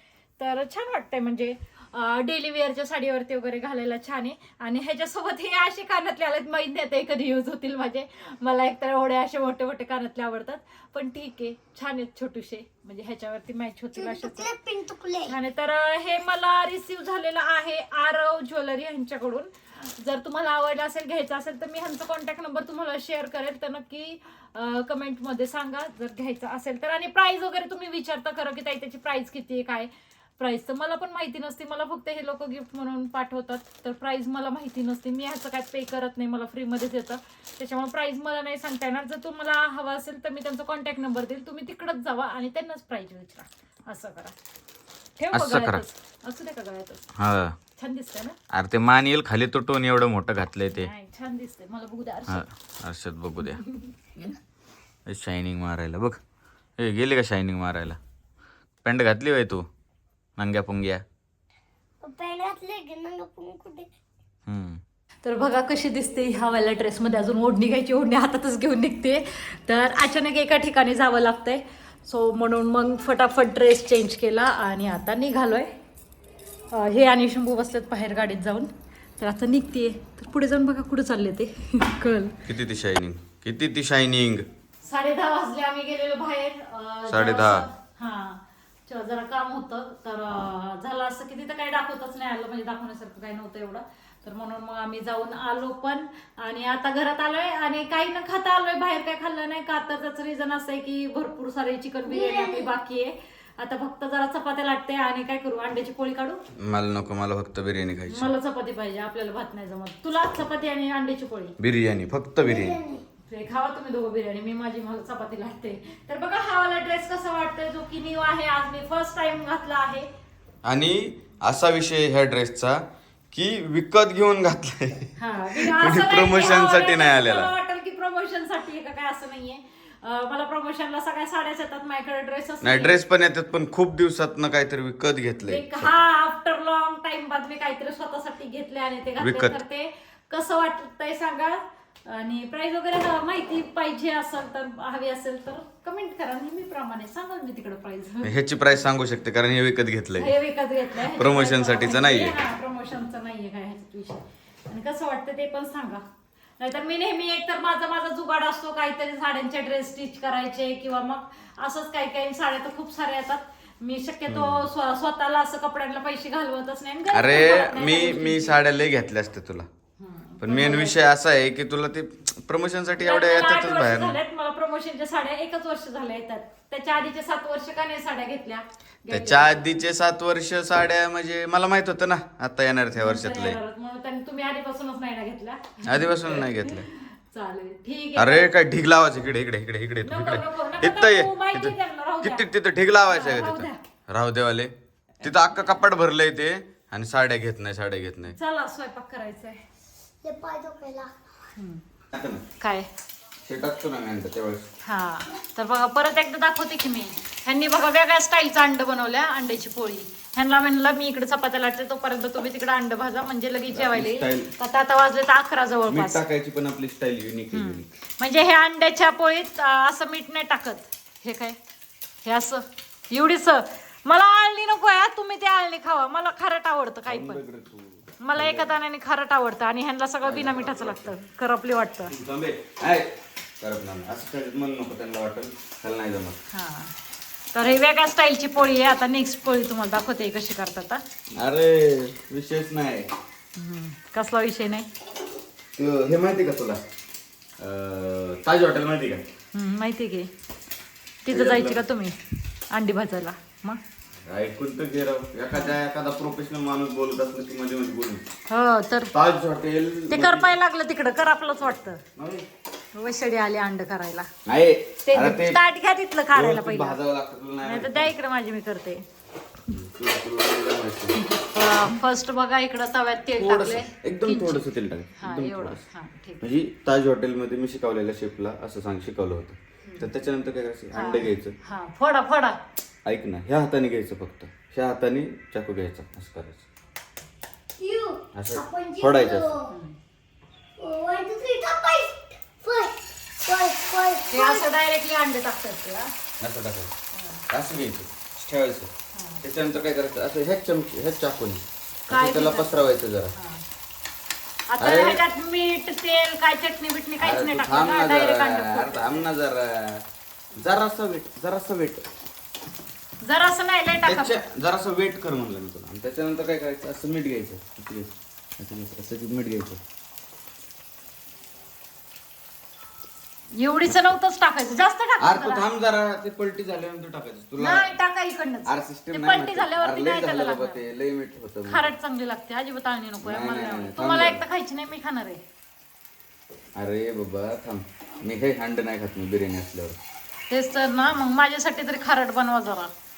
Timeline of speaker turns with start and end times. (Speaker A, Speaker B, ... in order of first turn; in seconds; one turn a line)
Speaker A: 0.4-14.5
Speaker B: 13.9-15.3
Speaker A: 15.3-44.3
Speaker A: 45.2-47.1
Speaker C: 45.3-45.8
Speaker C: 47.1-47.5
Speaker A: 47.8-48.4
Speaker C: 48.5-50.9
Speaker A: 50.7-52.5
Speaker C: 52.3-53.6
Speaker A: 53.5-54.3
Speaker C: 55.1-56.2
Speaker C: 56.8-58.0
Speaker C: 58.8-59.6
Speaker C: 60.4-61.0
Speaker B: 62.0-63.9
Speaker C: 64.5-64.8
Speaker A: 65.2-75.7
Speaker A: 76.7-82.4
Speaker C: 82.5-84.5
Speaker A: 84.8-106.4
Speaker C: 87.1-87.7
Speaker B: 102.1-102.7
Speaker C: 106.6-108.3
Speaker A: 108.1-111.5
Speaker C: 111.6-112.8
Speaker B: 112.4-113.0
Speaker A: 113.3-120.1
Speaker C: 120.6-127.5
Speaker A: 125.2-133.0
Speaker C: 132.6-136.0
Speaker A: 135.4-148.4
Speaker C: 139.2-139.6
Speaker C: 148.2-150.3
Speaker A: 150.2-156.0
Speaker C: 151.0-152.4
Speaker A: 156.6-168.6
Speaker C: 164.3-164.7
Speaker C: 167.1-169.7
Speaker A: 170.0-171.0
Speaker C: 170.4-174.2
Speaker A: 173.0-179.7
Speaker C: 179.1-183.6
Speaker A: 182.9-188.5
Speaker C: 185.8-186.9
Speaker C: 188.2-198.4
Speaker A: 190.0-192.5
Speaker A: 193.1-193.8
Speaker A: 198.3-199.6
Speaker B: 200.2-201.1
Speaker A: 201.6-201.8
Speaker C: 202.1-202.4
Speaker A: 202.6-202.9
Speaker C: 203.4-204.7
Speaker A: 204.8-216.2
Speaker C: 213.7-214.5
Speaker C: 215.9-217.9
Speaker A: 217.5-221.6
Speaker A: 222.2-227.4
Speaker C: 227.1-228.7
Speaker A: 228.2-232.1
Speaker C: 230.2-231.1
Speaker C: 232.1-236.4
Speaker A: 236.5-236.9
Speaker A: 237.5-241.0
Speaker C: 241.4-243.1
Speaker A: 243.6-244.9
Speaker C: 245.8-246.8
Speaker C: 247.6-249.2
Speaker A: 249.5-250.3
Speaker A: 251.2-252.2
Speaker C: 251.3-251.8
Speaker A: 252.7-253.8
Speaker C: 254.2-258.2
Speaker A: 258.5-259.1
Speaker C: 259.1-260.5
Speaker A: 260.1-262.0
Speaker C: 262.1-262.4
Speaker A: 262.9-264.3
Speaker C: 264.4-265.6
Speaker A: 265.1-267.0
Speaker C: 266.3-268.1
Speaker A: 267.6-269.1
Speaker C: 269.7-271.2
Speaker A: 271.1-274.6
Speaker C: 273.4-275.8
Speaker A: 275.2-276.4
Speaker C: 276.4-281.6
Speaker A: 279.8-280.1
Speaker A: 280.9-282.6
Speaker C: 283.0-286.6
Speaker B: 287.8-289.7
Speaker C: 288.3-289.6
Speaker A: 289.7-289.9
Speaker B: 290.8-294.6
Speaker A: 294.3-296.1
Speaker C: 296.4-296.9
Speaker A: 297.1-297.4
Speaker C: 297.5-298.9
Speaker A: 299.1-299.4
Speaker C: 299.4-303.3
Speaker A: 302.1-302.7
Speaker A: 303.3-303.6
Speaker A: 304.7-309.3
Speaker C: 304.8-305.2
Speaker C: 307.2-312.0
Speaker A: 313.2-314.3
Speaker C: 314.0-319.8
Speaker A: 323.6-325.6
Speaker C: 323.9-324.1
Speaker C: 325.2-327.9
Speaker A: 327.6-330.8
Speaker C: 328.6-331.9
Speaker A: 331.6-335.4
Speaker C: 333.2-334.4
Speaker C: 336.8-340.0
Speaker A: 340.5-342.9